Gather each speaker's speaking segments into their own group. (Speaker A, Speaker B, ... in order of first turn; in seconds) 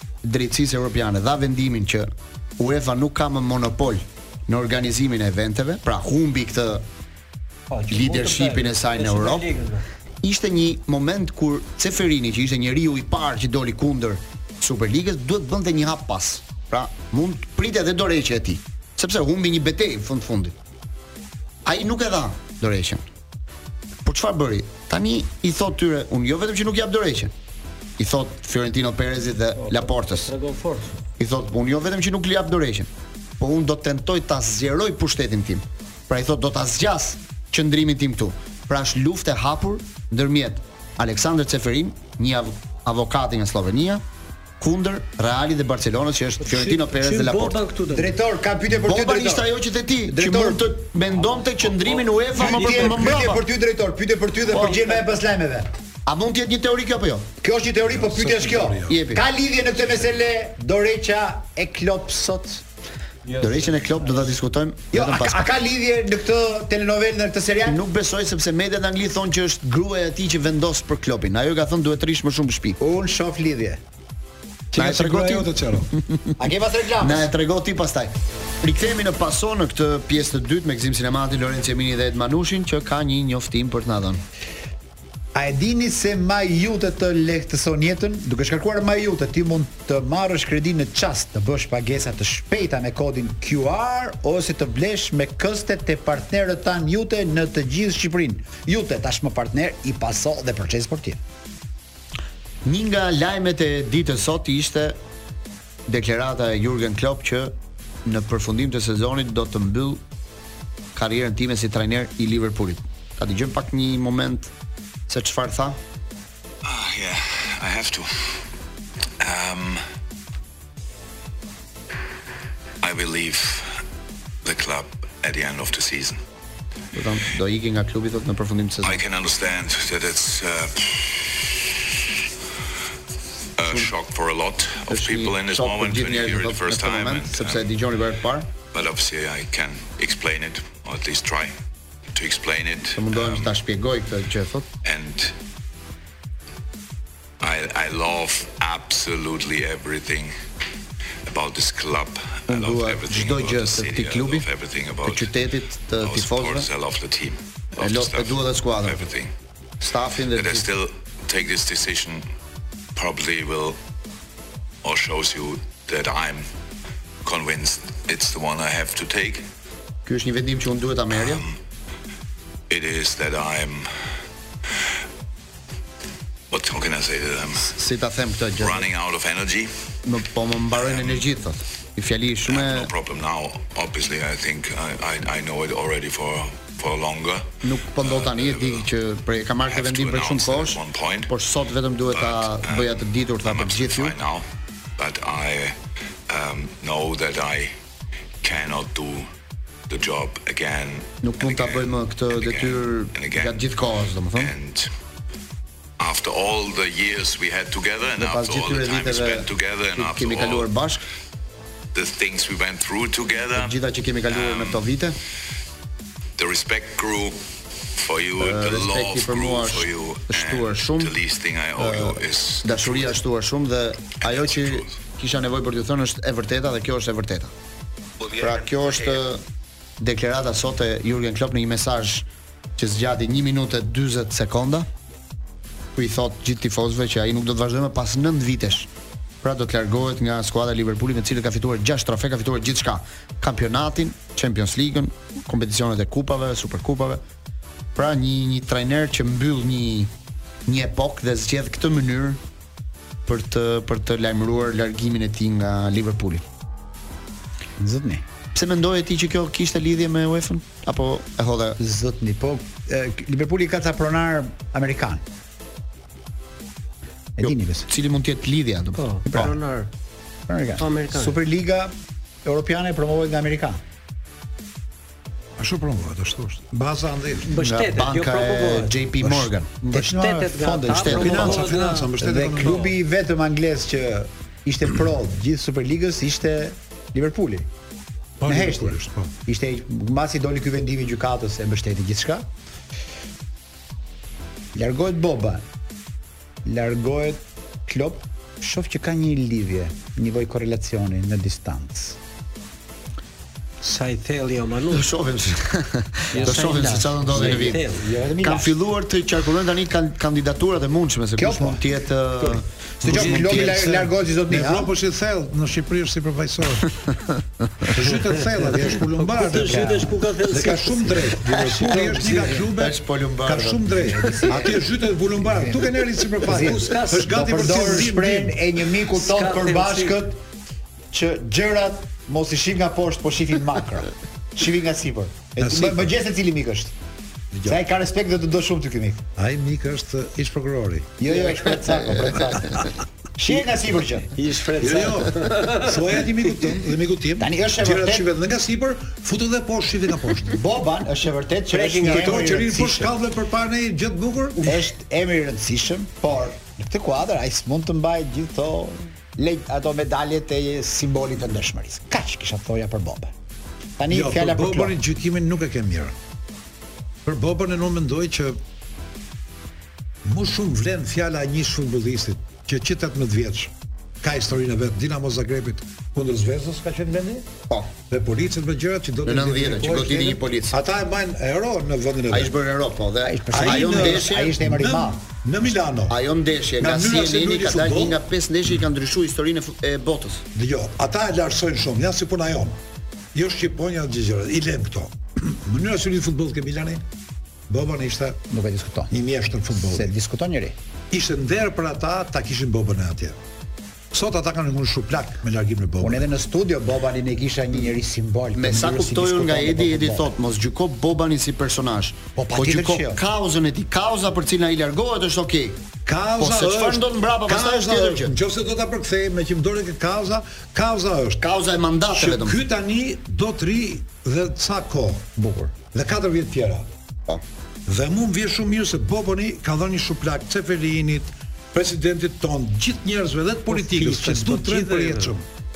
Speaker A: 0.2-6.9, 7.9-9.5, 10.2-20.6, 21.6-23.1, 24.0-27.3, 28.0-30.3, 31.2-44.0, 44.6-47.6, 48.8-53.4, 54.5-54.8, 56.0-57.3, 58.9-59.2, 63.4-65.5, 67.7-72.8, 74.8-75.5, 76.0-76.3, 77.0-84.2, 102.7-105.0, 105.9-110.0, 111.0-114.5, 115.1-115.8, 126.9-129.0, 134.9-138.5, 142.9-144.7, 152.5-154.5, 155.0-156.7, 157.8-159.0, 159.8-160.7, 170.1-171.4, 177.7-178.8, 180.1-182.9, 187.6-194.2, 201.2-204.5, 208.2-211.0, 213.6-215.2, 218.4-221.2, 221.8-227.5, 228.4-229.4, 230.0-234.9, 235.9-238.9, 239.4-247.2, 247.9-250.1, 250.7-252.4, 253.3-256.4, 258.5-261.8, 267.4-269.5, 277.6-279.8, 280.9-281.5, 304.9-307.9, 308.4-314.0, 322.7-324.3, 379.2-380.8, 382.3-384.6, 386.1-390.5, 408.5-415.9, 416.4-418.3, 421.4-422.6
Speaker B: 7.7-9.9, 29.6-31.0, 46.4-48.1, 51.6-52.1, 63.3-63.9, 269.0-269.9, 270.8-271.4, 277.5-279.0, 279.9-282.9, 303.8-305.1, 306.3-308.0, 319.2-321.3, 321.9-322.5, 326.5-327.5, 329.1-330.2, 344.3-346.3, 351.7-352.5, 433.7-435.3
Speaker C: 47.9-49.5, 50.1-50.6, 52.3-55.7, 57.4-62.6, 64.9-67.8, 72.8-73.8, 76.4-77.3, 85.3-101.2, 257.8-258.2, 261.8-265.2, 267.4-267.9, 270.5-271.9, 272.4-273.8, 279.8-281.6, 282.2-287.7, 288.5-292.5, 294.7-295.6, 296.6-302.2, 306.4-308.7, 311.4-311.8, 312.4-314.9, 319.6-320.0, 324.0-324.9, 325.4-330.4, 331.1-336.9, 337.7-339.2, 341.2-344.3, 347.4-348.3, 350.5-353.1, 354.6-363.3, 364.0-365.0, 383.2-385.2, 398.5-399.1, 399.7-400.8, 406.0-410.3, 412.4-413.2, 425.4-425.8
Speaker D: 57.9-59.0, 74.7-75.9, 275.6-277.5, 281.0-282.9, 288.4-289.3, 313.0-316.9, 317.9-328.6, 335.6-336.1, 337.5-337.8, 339.4-341.1, 344.8-350.6, 352.0-354.8, 364.1-366.1, 367.2-368.6, 370.2-377.5, 378.1-382.5, 383.5-386.2, 386.8-388.2, 390.6-392.8, 393.3-397.0, 397.7-398.4, 399.1-400.1, 401.1-403.4, 404.1-406.3, 416.1-421.4, 422.1-425.3, 425.9-426.9, 427.9-435.4
Speaker E: 116.6-118.3, 119.2-119.8, 122.8-123.7, 124.4-126.2, 128.8-131.7, 133.6-137.7, 138.7-141.5, 142.2-143.5, 144.8-145.3, 147.4-150.3, 151.3-155.3, 156.0-159.3, 160.3-162.3, 162.9-163.8, 164.8-166.4, 167.2-169.5, 171.1-171.6, 172.7-173.9, 176.5-177.8, 178.6-179.7, 180.8-181.2, 182.5-188.9, 189.7-191.3, 192.1-194.4, 195.0-195.8, 196.3-197.7, 198.4-199.3, 199.9-203.6, 204.3-204.9, 206.0-210.7, 211.9-213.8, 214.3-214.8, 216.4-217.4, 218.0-223.2, 224.2-224.9, 228.2-229.1